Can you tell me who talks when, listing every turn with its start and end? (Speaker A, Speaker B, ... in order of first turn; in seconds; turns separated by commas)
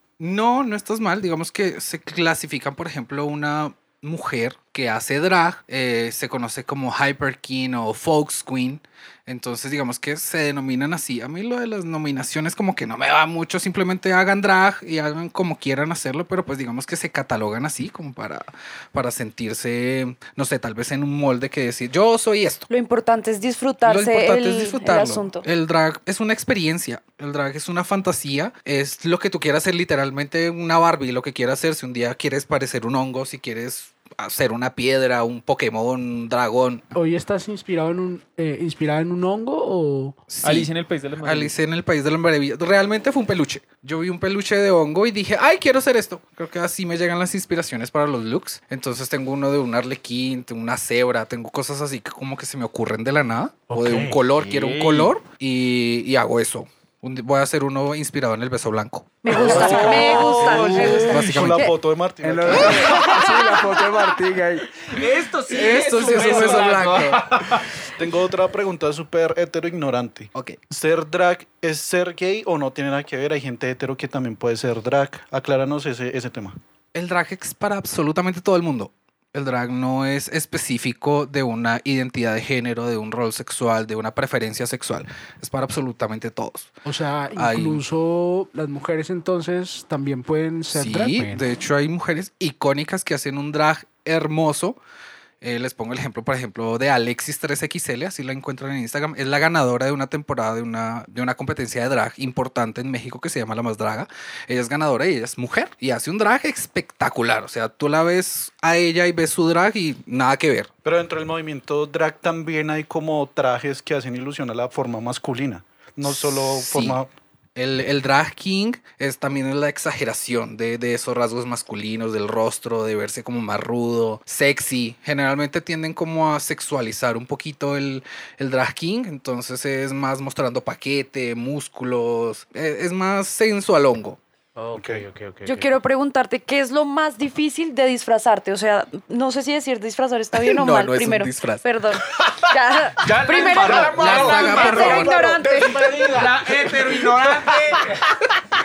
Speaker A: 0.2-22.7, Speaker B: 22.7-25.4, Speaker A: 23.8-36.9, Speaker C: 36.9-40.2, Speaker A: 40.3-61.7, Speaker D: 40.4-41.5, Speaker C: 53.7-54.2, Speaker D: 54.4-55.1, Speaker B: 59.2-61.7, Speaker E: 59.3-63.0, Speaker D: 59.5-61.4, Speaker C: 62.2-64.7, Speaker A: 62.5-63.0, Speaker B: 63.0-63.5, Speaker D: 64.9-67.8, Speaker A: 65.5-67.4, Speaker E: 67.9-76.6, Speaker A: 76.9-86.8, Speaker C: 86.8-91.4, Speaker A: 87.4-87.8, Speaker A: 90.7-94.8, Speaker A: 95.4-110.7, Speaker E: 110.8-117.1, Speaker A: 116.0-117.0, Speaker A: 117.6-134.2, Speaker C: 134.6-135.7, Speaker E: 134.7-135.1, Speaker B: 135.4-146.1, Speaker A: 140.3-141.7, Speaker D: 142.9-148.2, Speaker A: 143.7-145.2, Speaker C: 145.5-146.3